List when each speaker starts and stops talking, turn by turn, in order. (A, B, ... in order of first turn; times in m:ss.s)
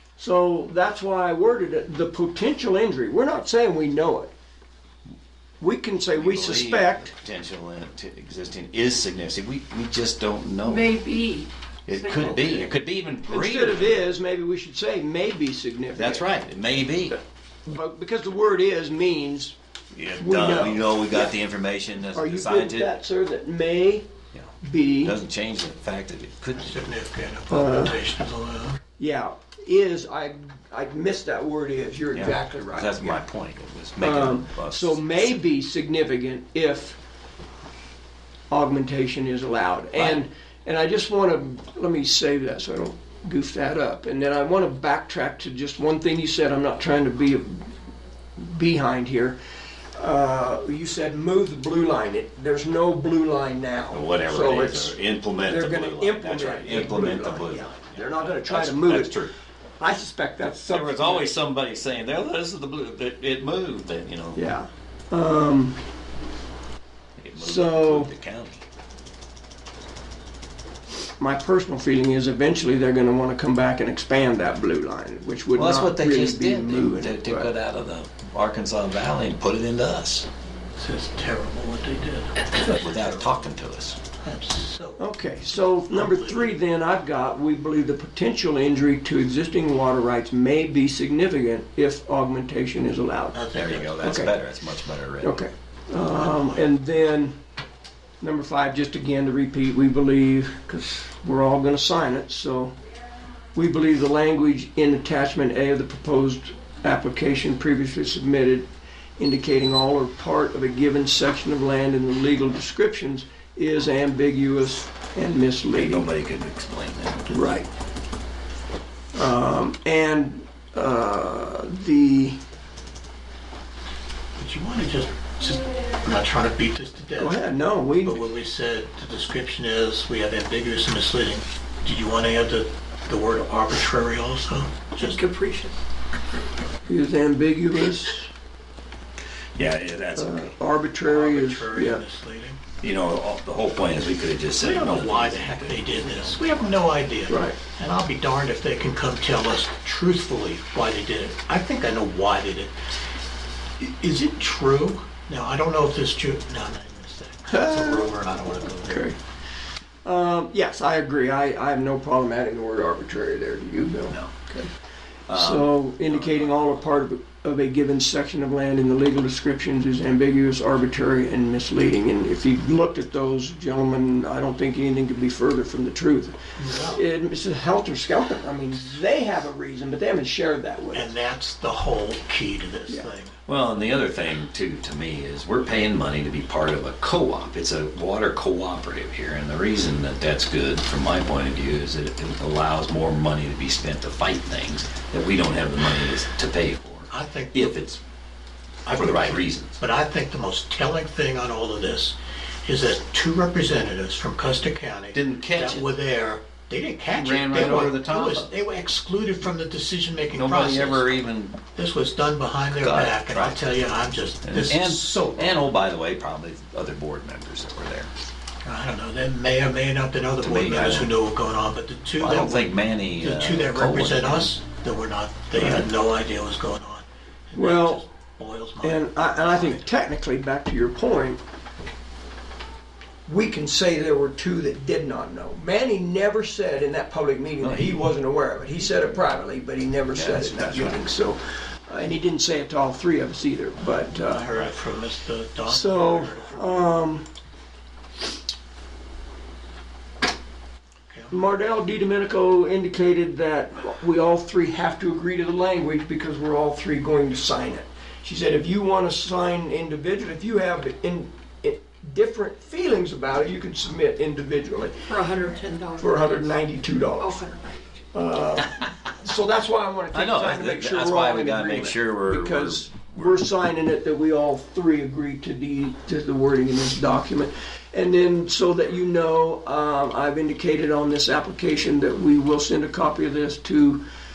0:00.2-0:04.3 A
0:05.6-0:07.1 A
0:06.1-0:11.0 B
0:10.6-0:12.6 C
0:11.9-0:14.0 B
0:13.2-0:16.3 A
0:16.0-0:17.2 B
0:17.7-0:19.6 A
0:19.9-0:22.9 B
0:20.2-0:21.3 A
0:22.1-0:24.1 A
0:24.3-0:26.8 B
0:24.6-0:25.2 A
0:26.6-0:28.8 D
0:27.5-0:28.0 A
0:29.0-0:33.2 A
0:32.1-0:35.4 B
0:34.0-0:37.0 A
0:38.5-0:47.7 A
0:48.4-0:49.4 A
0:50.0-0:59.2 A
0:53.9-0:59.3 B
0:59.8-1:01.3 A
1:00.7-1:04.4 B
1:04.3-1:05.8 A
1:07.2-1:08.6 B
1:07.4-1:08.1 A
1:11.2-1:17.5 A
1:15.6-1:20.3 B
1:20.8-1:23.4 D
1:22.6-1:24.0 B
1:24.1-1:25.1 D
1:25.0-1:33.4 A
1:25.7-1:26.5 D
1:33.3-1:34.2 D
1:33.5-1:35.4 B
1:34.0-1:34.3 A
1:35.2-1:37.4 A
1:36.1-1:36.6 D
1:38.2-1:42.7 A
1:43.5-1:56.1 A
1:55.7-1:57.3 B
1:57.3-1:57.7 A
1:59.1-2:02.4 A
2:04.4-2:15.2 D
2:07.2-2:08.3 A
2:15.0-2:15.7 C
2:16.8-2:18.3 A
2:19.6-2:20.5 B
2:20.2-2:22.0 A
2:21.0-2:22.6 D
2:22.8-2:26.3 B
2:24.6-2:32.7 D
2:27.3-2:27.6 A
2:33.8-2:39.1 D
2:37.5-2:38.1 A
2:38.8-2:39.2 A
2:40.0-2:44.7 A
2:45.3-2:46.5 B
2:45.3-2:56.3 A
2:56.6-2:57.0 D
2:56.9-3:01.1 A
3:00.9-3:03.3 D
3:03.4-3:18.0 B
3:17.1-3:17.8 D
3:18.8-3:31.1 D
3:18.9-3:19.8 B
3:25.1-3:25.9 B
3:27.1-3:28.6 B
3:30.3-3:31.6 B
3:31.8-3:35.7 D
3:32.7-3:33.6 B
3:34.4-3:38.1 B
3:38.6-3:49.8 D
3:40.4-3:41.1 B
3:42.2-3:44.5 B
3:45.6-3:45.8 A
3:47.6-3:48.0 A
3:48.8-3:51.4 A
3:53.3-4:04.7 A
3:57.6-3:58.0 B
4:00.1-4:01.0 B
4:04.1-4:07.0 D
4:05.7-4:07.3 A
4:11.3-4:25.1 A
4:25.1-4:26.1 C
4:26.0-4:27.4 A
4:27.2-4:27.5 C
4:28.1-4:44.0 A
4:30.1-4:33.4 B